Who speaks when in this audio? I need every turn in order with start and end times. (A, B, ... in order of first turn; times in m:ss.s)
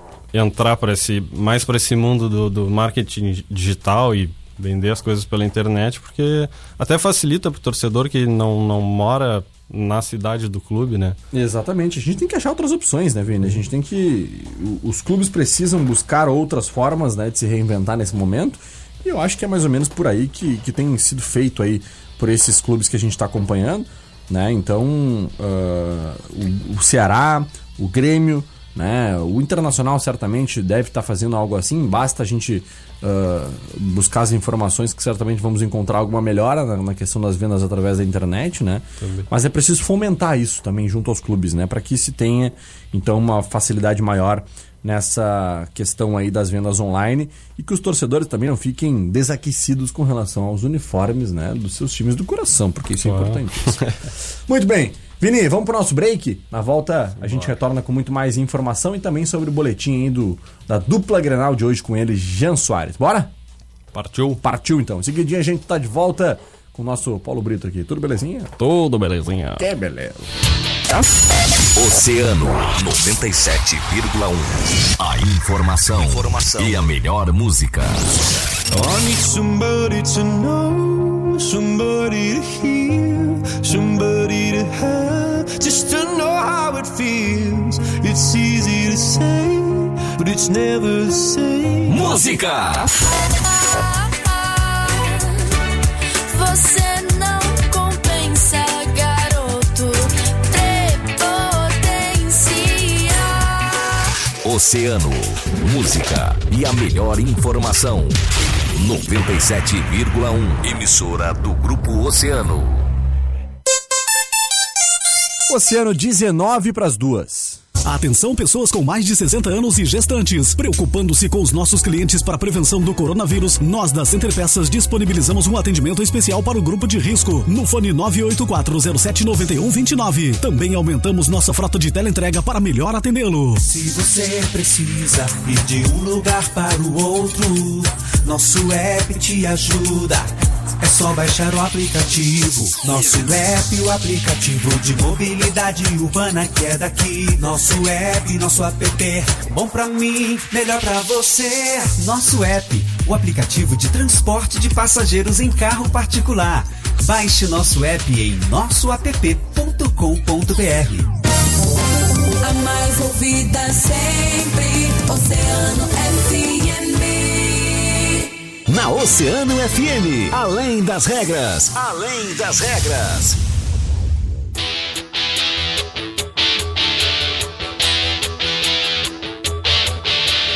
0:00.3-0:11.2 A
0:11.3-0:53.9 B
0:39.0-0:39.3 A
0:53.0-0:53.9 A
0:54.5-1:03.3 B
0:57.2-0:57.5 A
1:03.9-1:04.4 A
1:04.4-1:08.5 B
1:08.6-1:09.6 A
1:09.6-1:10.2 B
1:11.7-1:18.0 C
1:18.7-1:32.1 D
1:31.9-1:32.9 C
1:33.2-1:35.6 E
1:36.3-1:44.1 E
1:44.4-1:52.8 C
1:55.5-1:57.6 B
1:57.8-2:13.6 F
2:13.6-2:41.1 G
2:42.4-2:48.3 E
2:48.7-2:53.4 C